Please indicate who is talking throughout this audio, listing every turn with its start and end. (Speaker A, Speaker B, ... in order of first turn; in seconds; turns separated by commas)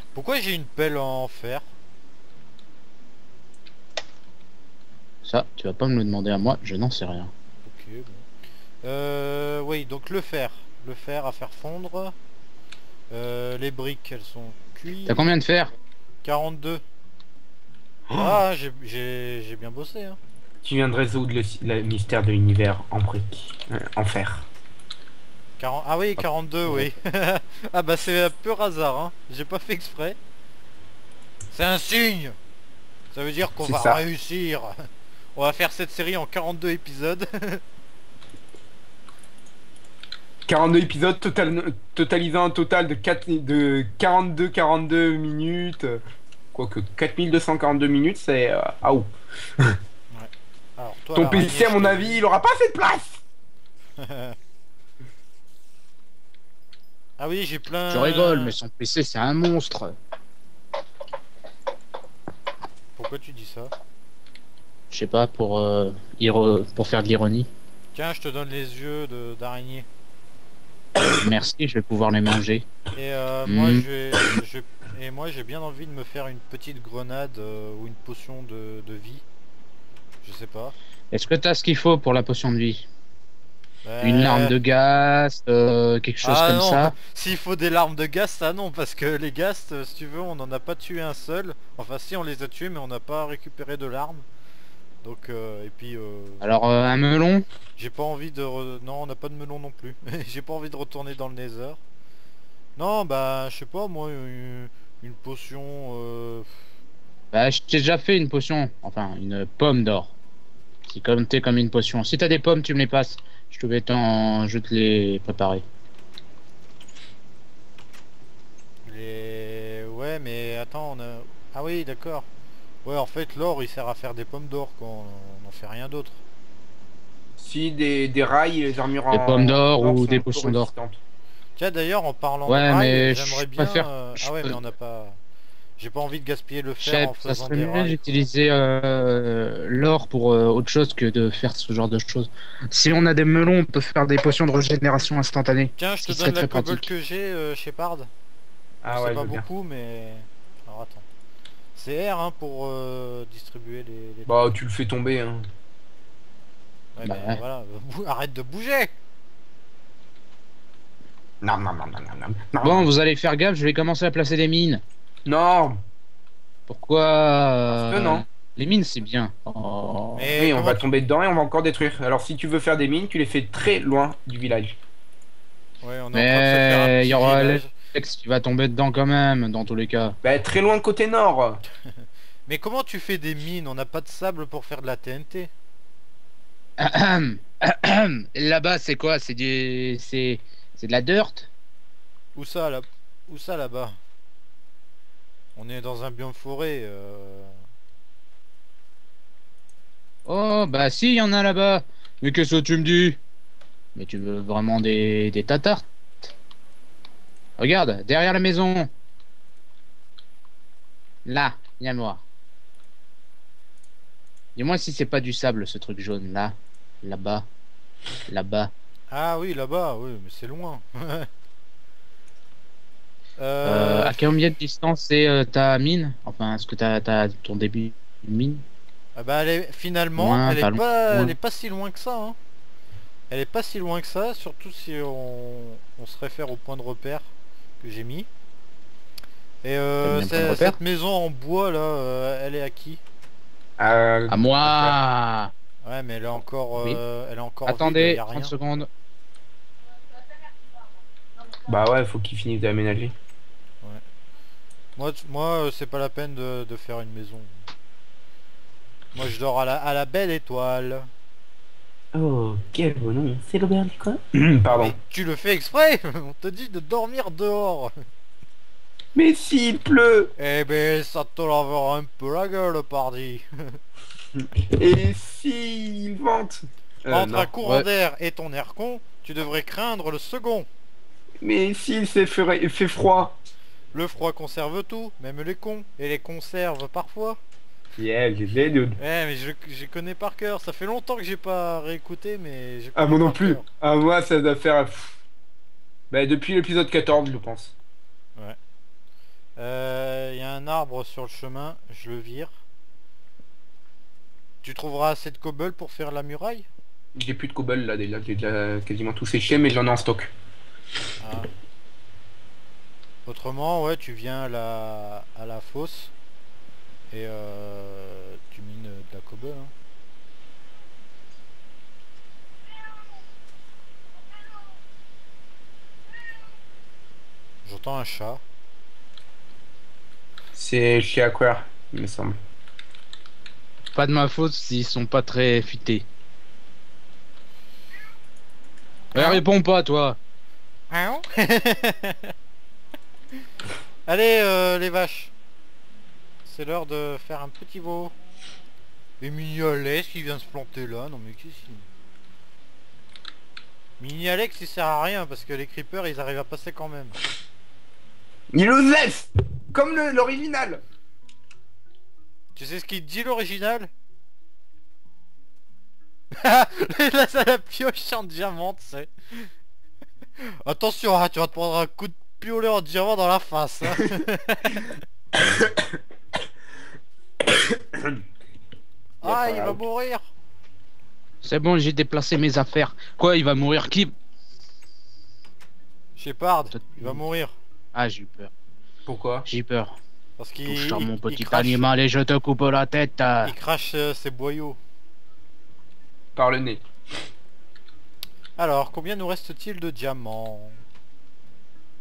Speaker A: 0.1-1.7, Speaker B: 5.2-7.3, Speaker A: 7.6-8.3, Speaker A: 8.8-12.1, Speaker A: 13.1-15.3, Speaker B: 15.1-15.7, Speaker A: 16.2-16.8, Speaker C: 18.1-18.4, Speaker A: 18.1-20.2, Speaker C: 20.6-24.5, Speaker A: 25.6-30.2, Speaker A: 31.5-32.4, Speaker A: 33.1-34.8, Speaker C: 33.6-34.0, Speaker A: 35.4-37.6, Speaker C: 40.5-46.0, Speaker C: 46.5-49.1, Speaker A: 50.1-52.2, Speaker C: 51.1-53.2, Speaker A: 54.0-54.4, Speaker A: 57.2-58.5, Speaker B: 57.9-59.9, Speaker A: 63.0-63.7, Speaker B: 64.9-67.5, Speaker A: 67.9-69.9, Speaker B: 71.2-72.7, Speaker A: 72.9-79.2, Speaker B: 73.5-73.8, Speaker A: 80.2-80.7, Speaker B: 81.1-82.8, Speaker A: 83.8-84.5, Speaker B: 84.0-86.9, Speaker A: 86.2-94.2, Speaker A: 95.0-96.5, Speaker B: 96.4-97.4, Speaker A: 97.8-101.8, Speaker A: 102.8-106.5, Speaker B: 107.3-110.1, Speaker B: 110.9-115.6, Speaker A: 118.8-122.3, Speaker A: 122.8-126.2, Speaker C: 127.4-131.0, Speaker B: 129.1-130.7, Speaker A: 131.6-135.2, Speaker B: 132.5-134.6, Speaker A: 135.8-138.2, Speaker B: 136.8-146.9, Speaker A: 145.8-148.1, Speaker C: 148.8-149.4, Speaker A: 148.9-151.0, Speaker A: 151.8-154.5, Speaker C: 154.3-155.5, Speaker A: 156.9-158.9, Speaker B: 157.0-157.4, Speaker C: 161.4-162.9, Speaker B: 162.6-164.8, Speaker C: 165.2-165.8, Speaker B: 166.7-170.3, Speaker C: 167.7-168.2, Speaker A: 170.2-170.8, Speaker C: 170.4-174.8, Speaker A: 175.8-177.7, Speaker B: 176.1-180.1, Speaker C: 180.2-181.6, Speaker A: 182.5-185.5, Speaker B: 186.8-191.5, Speaker A: 192.3-194.0, Speaker A: 195.6-197.6, Speaker B: 200.2-203.2, Speaker B: 203.9-206.3, Speaker B: 207.6-208.9, Speaker B: 211.2-212.2, Speaker B: 214.6-217.4, Speaker B: 218.3-218.7, Speaker A: 219.1-221.3, Speaker A: 223.4-224.3, Speaker B: 223.6-228.6, Speaker A: 229.2-232.4, Speaker B: 230.2-231.3, Speaker A: 233.3-238.3, Speaker A: 239.6-243.0, Speaker B: 240.0-240.8, Speaker C: 243.8-244.9, Speaker B: 244.3-245.5, Speaker A: 245.8-248.5, Speaker B: 247.7-248.9, Speaker C: 251.7-253.1, Speaker A: 254.9-257.5, Speaker A: 259.1-261.1, Speaker C: 262.1-264.9, Speaker A: 264.7-267.9, Speaker C: 269.1-270.3, Speaker A: 270.4-273.8, Speaker C: 274.4-277.5, Speaker A: 277.1-280.7, Speaker C: 281.4-283.3, Speaker A: 283.9-287.4, Speaker C: 288.0-289.0, Speaker A: 289.0-293.7, Speaker C: 292.9-295.2, Speaker C: 296.1-297.7, Speaker A: 299.6-302.6, Speaker A: 304.6-306.7, Speaker C: 307.1-310.3, Speaker A: 311.2-311.5, Speaker A: 313.2-316.1, Speaker A: 317.1-319.7, Speaker A: 327.6-328.4, Speaker C: 330.5-332.4, Speaker B: 333.9-336.1, Speaker B: 339.1-340.2, Speaker A: 339.1-339.4, Speaker A: 340.9-342.3, Speaker A: 344.1-345.3, Speaker A: 346.4-348.1, Speaker A: 349.2-351.9, Speaker A: 354.0-357.2, Speaker C: 358.5-360.8, Speaker A: 362.6-363.9, Speaker A: 366.3-369.5, Speaker A: 370.6-374.9, Speaker C: 375.6-375.9, Speaker C: 377.7-378.1, Speaker A: 379.2-380.3, Speaker C: 379.2-379.8, Speaker B: 381.4-384.1, Speaker A: 386.1-387.6, Speaker B: 386.7-387.2, Speaker B: 387.9-388.5, Speaker C: 389.1-389.5, Speaker B: 389.5-390.0, Speaker A: 390.4-391.9, Speaker B: 390.6-393.5, Speaker A: 393.4-394.8, Speaker C: 396.4-396.8, Speaker A: 398.6-400.8